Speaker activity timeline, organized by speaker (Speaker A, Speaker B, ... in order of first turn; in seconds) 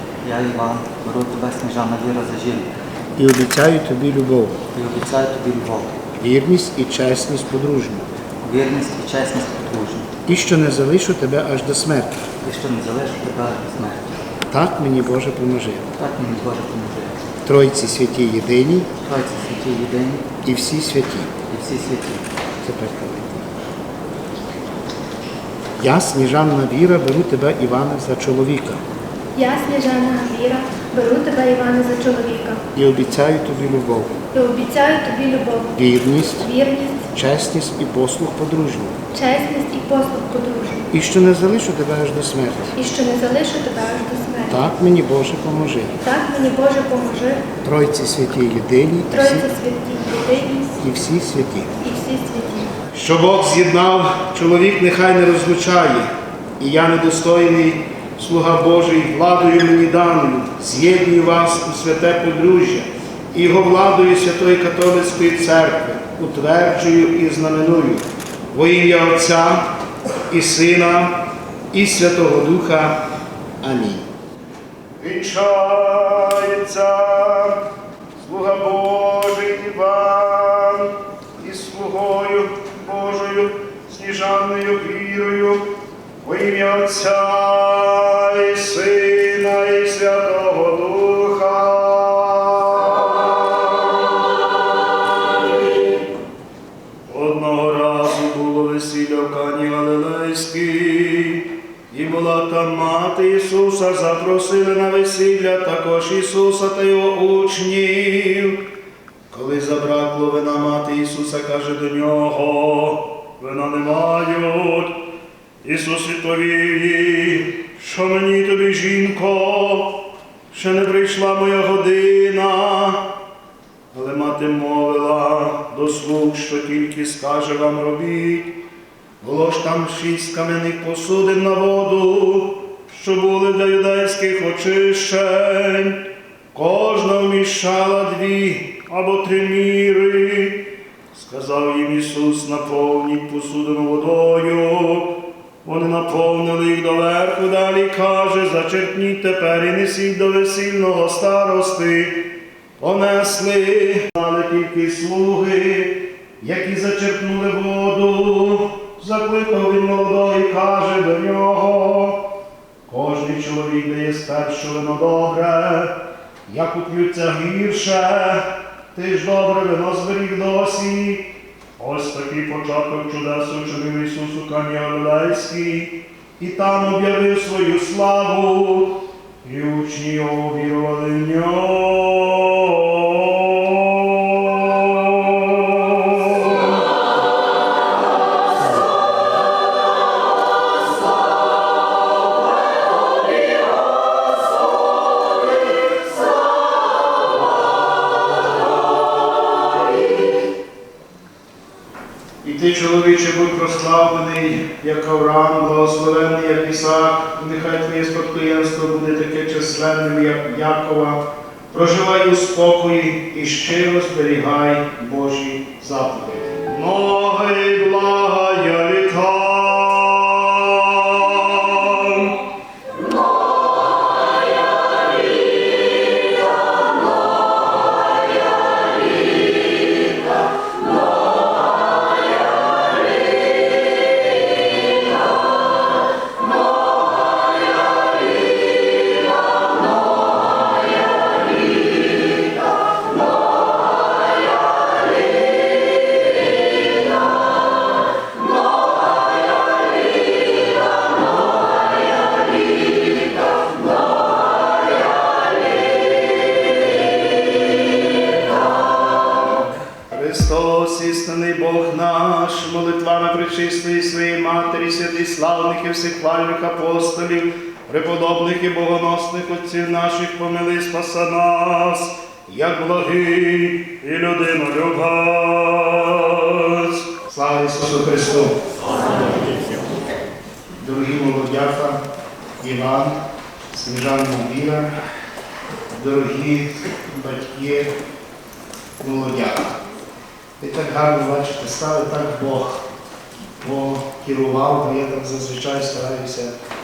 Speaker A: 0.2-2.7, 4.7-6.0, 8.4-10.1, 12.4-14.1, 16.0-17.2, 19.0-20.3, 21.5-22.2
Speaker B: 3.1-4.6, 6.2-8.1, 10.3-12.2, 14.5-15.9, 17.4-18.9, 20.4-21.3, 22.6-23.5, 25.8-28.8, 32.7-34.2, 35.7-36.5, 37.1-39.0, 40.9-42.8, 44.5-46.0, 47.6-49.5, 50.8-51.7, 52.9-56.1, 56.6-69.7, 70.3-71.2, 71.7-73.0, 73.6-74.1, 75.0-75.9, 76.5-77.4, 78.2-80.9, 81.4-85.6, 86.2-92.8, 97.1-108.6, 109.3-114.9, 115.6-123.0, 123.9-128.6, 129.2-136.0, 136.6-140.6, 141.1-145.1, 145.6-152.3, 152.8-162.2, 162.9-165.9, 166.5-171.3, 171.8-182.0, 202.4-220.1, 260.1-274.6, 277.2-278.5, 280.8-282.0, 282.6-283.2, 283.7-284.9, 285.9-287.9, 289.0-289.8, 290.6-292.8, 293.6-296.5
Speaker C: 29.3-32.6, 34.3-35.8, 36.4-37.0, 39.1-40.9, 42.8-44.6, 46.0-47.5, 49.1-50.8, 51.8-52.7